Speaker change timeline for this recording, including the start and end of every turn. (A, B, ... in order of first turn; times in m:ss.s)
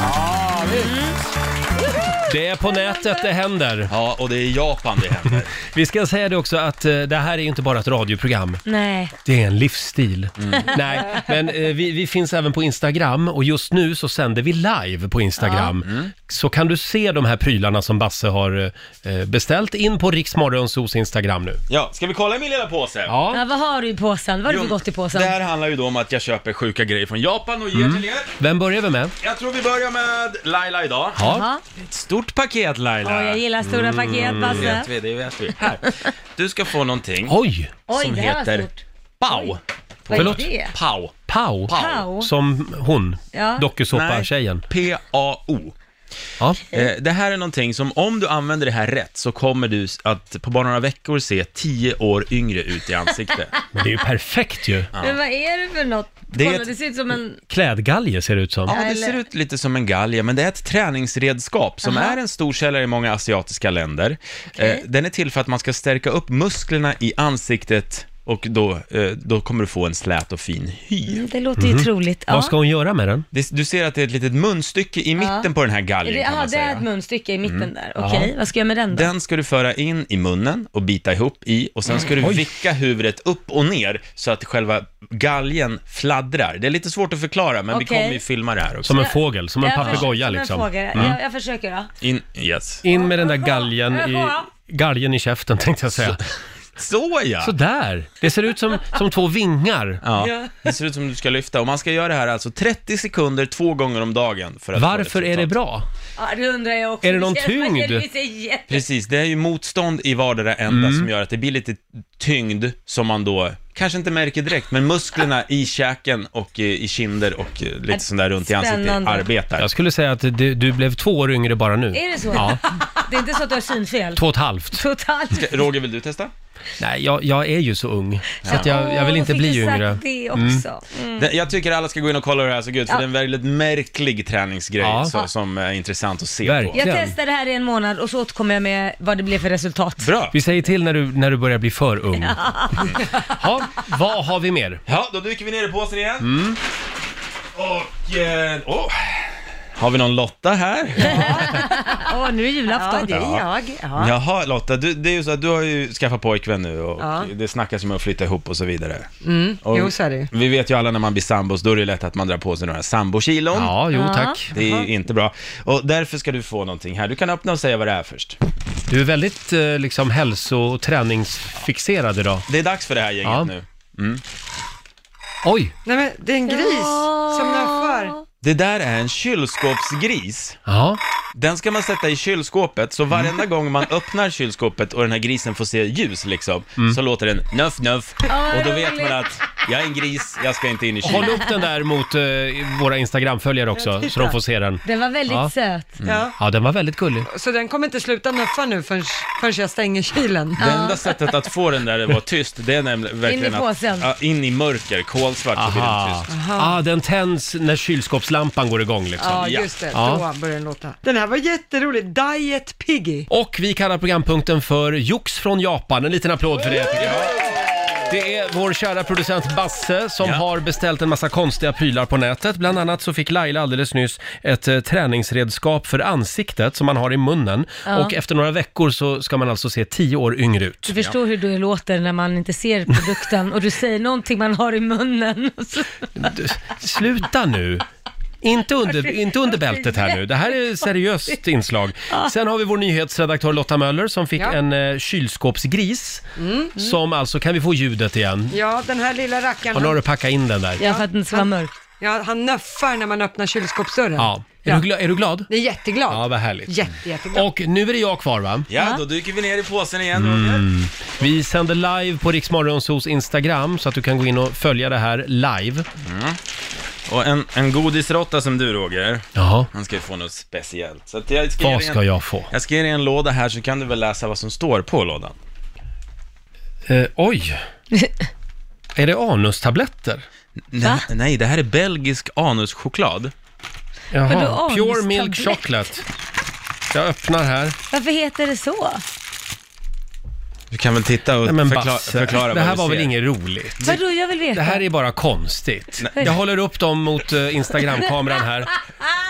0:00.3-0:00.8 A
0:00.7-0:01.1 B
0:02.2-0:03.9 A
0:03.9-0:05.5 C
0:05.6-0:08.6 A
0:08.6-0:09.1 B
0:09.2-0:21.6 A
0:10.4-0:10.7 C
0:15.4-0:15.7 B
0:15.8-0:16.1 C
0:21.7-0:23.2 C
0:23.1-0:23.4 A
0:23.3-0:25.4 B
0:24.4-0:28.3 C
0:27.7-0:29.1 A
0:29.2-0:31.2 C
0:31.2-0:31.5 A
0:31.2-0:31.6 B
0:31.8-0:33.5 C
0:33.0-0:34.9 B
0:33.7-0:34.8 A
0:34.2-0:37.4 C
0:35.6-0:36.1 B
0:37.2-0:37.8 A
0:37.9-0:39.5 B
0:37.9-0:38.7 C
0:39.2-0:41.1 C
0:40.1-0:40.7 B
0:40.1-0:40.5 A
0:41.2-0:44.6 A
0:41.7-0:42.1 C
0:41.7-0:42.3 B
0:43.3-0:43.7 B
0:43.9-0:45.8 C
0:46.4-0:46.7 A
0:46.7-0:53.6 C
0:53.7-0:54.9 A
0:55.0-0:57.4 B
0:56.3-0:56.7 C
0:57.5-0:58.8 A
0:58.6-1:11.2 C
0:58.7-0:59.2 B
1:01.8-1:02.2 B
1:04.5-1:04.8 B
1:11.1-1:12.5 B
1:11.6-1:13.3 A
1:13.3-1:16.8 C
1:15.2-1:15.5 B
1:16.0-1:19.1 B
1:17.4-1:17.7 C
1:18.0-1:18.3 A
1:18.9-1:29.0 C
1:22.2-1:22.5 A
1:27.7-1:28.2 B
1:28.8-1:31.2 A
1:28.9-1:31.9 B
1:29.8-1:30.0 C
1:32.0-1:32.8 C
1:32.8-1:36.3 A
1:32.9-1:34.4 B
1:36.8-1:37.5 C
1:37.4-1:40.2 A
1:40.0-1:45.5 C
1:40.2-1:40.7 D
1:44.7-1:45.8 A
1:46.2-1:48.8 B
1:47.0-1:48.0 A
1:48.7-1:59.7 C
1:50.7-1:51.1 A
1:57.9-1:59.3 B
1:59.6-2:02.6 A
2:01.9-2:05.7 B
2:04.1-2:04.8 A
2:05.3-2:06.3 C
2:06.8-2:10.6 A
2:08.4-2:08.7 C
2:08.4-2:11.3 B
2:11.2-2:16.8 C
2:14.8-2:15.2 A
2:16.4-2:17.2 A
2:16.7-2:20.1 B
2:20.0-2:20.4 C
2:20.3-2:24.8 A
2:22.1-2:22.9 B
2:24.9-2:26.3 C
2:26.2-2:26.6 A
2:27.5-2:31.6 C
2:31.0-2:33.2 B
2:32.7-2:34.2 D
2:33.1-2:33.4 C
2:34.0-2:39.1 C
2:37.0-2:37.3 D
2:39.2-2:40.3 D
2:39.6-2:43.8 C
2:43.5-2:44.5 A
2:43.9-2:44.4 B
2:44.5-2:48.4 C
2:44.5-2:44.9 D
2:48.9-2:52.5 A
2:52.5-2:54.2 C
2:53.2-2:53.5 A
2:55.4-2:55.7 A
2:55.8-2:58.2 D
2:56.5-2:58.2 B
2:58.4-3:00.6 C
3:00.6-3:01.0 A
3:01.3-3:11.4 C
3:08.3-3:09.4 B
3:11.0-3:15.5 A
3:13.8-3:14.4 D
3:14.8-3:16.0 B
3:16.0-3:16.3 C
3:16.0-3:16.3 D
3:16.4-3:17.3 A
3:17.3-3:20.8 D
3:20.6-3:21.4 B
3:20.6-3:26.3 C
3:23.2-3:24.1 B
3:25.6-3:30.2 A
3:26.2-3:26.8 D
3:29.2-3:33.2 D
3:29.2-3:29.8 C
3:33.3-3:37.3 A
3:38.0-3:51.0 A
3:47.8-3:48.1 B
3:50.8-3:56.1 B
3:56.2-3:57.8 A
3:58.4-4:08.6 A
3:59.0-4:00.8 B
4:06.4-4:06.8 D
4:08.5-4:10.0 D
4:09.7-4:10.8 A
4:10.8-4:11.7 B
4:10.8-4:14.9 D
4:14.1-4:15.5 A
4:15.5-4:17.5 D
4:16.1-4:18.7 A
4:18.7-4:20.7 C
4:18.8-4:19.0 B
4:20.1-4:25.8 A
4:26.0-4:26.4 C
4:27.1-4:35.4 C
4:29.4-4:29.7 A
4:31.6-4:32.5 A
4:36.9-4:37.6 A
4:38.9-4:40.2 A
4:40.7-4:43.3 C
4:40.8-4:41.0 B
4:44.1-4:46.0 A
4:44.2-4:45.6 B
4:46.9-4:47.8 A
4:47.9-4:49.0 B
4:50.7-4:53.1 C
4:51.4-4:54.0 A
4:53.8-4:54.8 B
4:54.5-4:58.8 A
4:56.0-4:56.4 C
4:56.1-4:56.4 B